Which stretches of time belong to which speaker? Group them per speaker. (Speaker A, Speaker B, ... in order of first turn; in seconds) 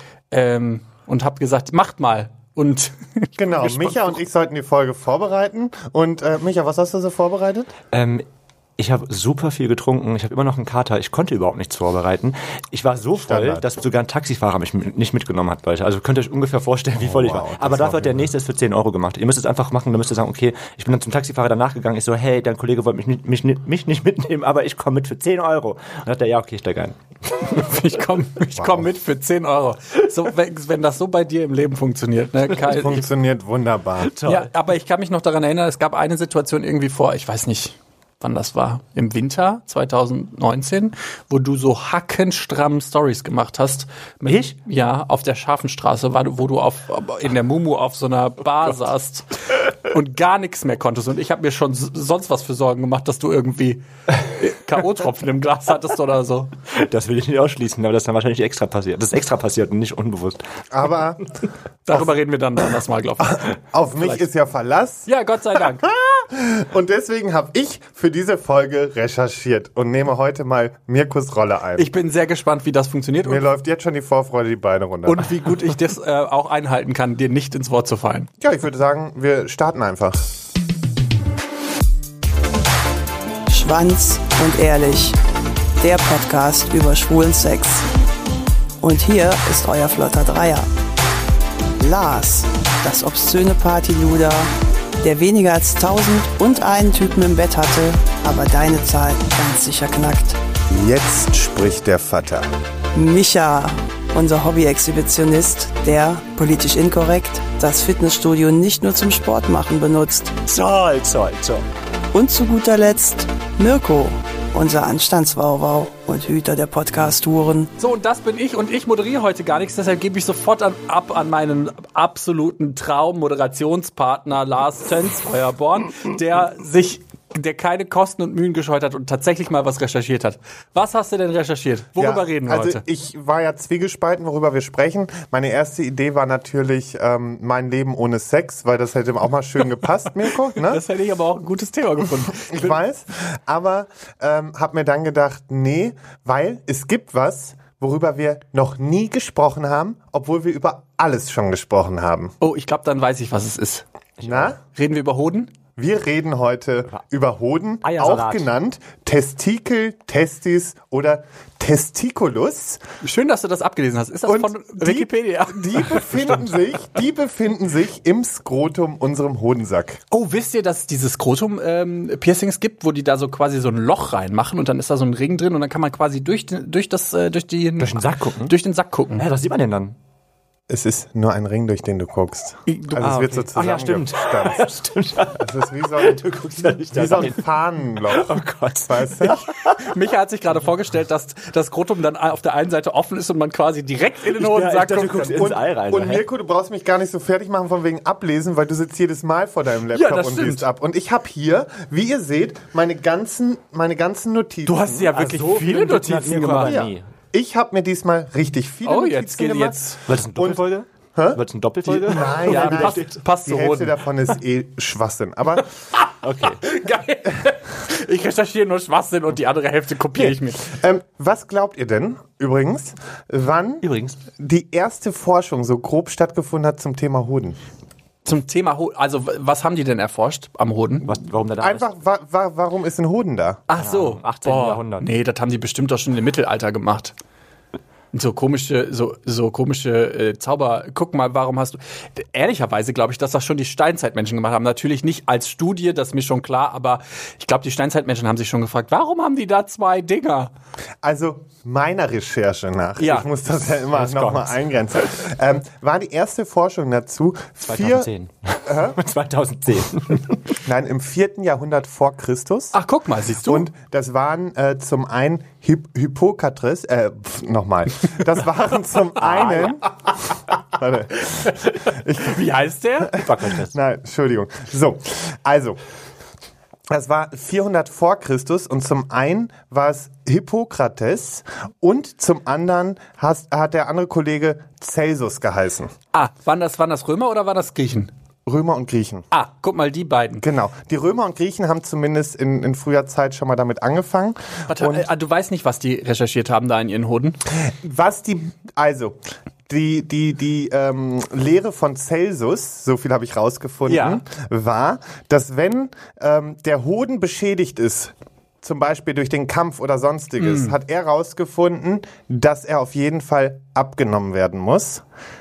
Speaker A: 0.3-4.2, 27.5-33.1, 34.2-56.5, 61.9-64.2, 65.1-65.9, 71.8-73.5, 75.1-78.3, 117.8-132.8, 140.4-142.8, 152.4-153.8, 154.7-155.5, 163.0-166.2, 170.1-179.2, 182.7-183.1, 189.8-195.5, 199.9-200.7, 204.7-206.8, 208.8-210.0, 212.5-214.0, 216.6-220.7, 228.2-231.2, 233.7-237.1, 238.1-250.5, 253.0-253.3, 262.7-263.7, 271.3-273.2, 286.1-288.1, 289.3-290.5, 294.7-297.4, 303.9-304.2, 310.4-310.8
Speaker B: 3.4-7.7, 13.2-13.7, 17.0-18.3, 28.5-28.9, 32.6-34.1, 60.7-61.2, 63.4-65.1, 65.8-71.9, 73.2-75.3, 78.4-80.3, 100.7-102.5, 132.0-140.8, 142.4-152.3, 154.2-154.6, 155.8-162.8, 164.3-170.0, 180.7-184.7, 185.4-186.3, 186.9-189.4, 195.4-205.1, 206.7-210.6, 211.2-215.7, 220.1-223.8, 224.4-227.6, 231.6-233.6, 251.0-258.1, 258.7-259.0, 260.6-269.9, 270.6-272.4, 273.6-275.8, 276.9-285.9, 288.5-289.3, 290.4-295.1, 297.6-299.2, 299.7-315.0
Speaker C: 7.9-8.2, 8.8-27.0, 34.0-34.5, 44.3-44.5, 56.7-60.4, 110.5-111.7, 154.2-154.5, 157.8-158.5, 177.8-178.5, 179.2-179.9, 183.0-187.4, 188.1-189.8, 194.3-196.2, 205.1-207.1, 210.1-213.2, 216.2-216.6, 223.8-224.2, 231.1-231.9, 233.8-235.1, 253.9-254.6, 257.7-260.4, 273.1-273.8
Speaker D: 83.5-85.2, 85.8-87.9, 88.8-90.7, 91.8-100.4, 102.9-110.4, 112.1-117.7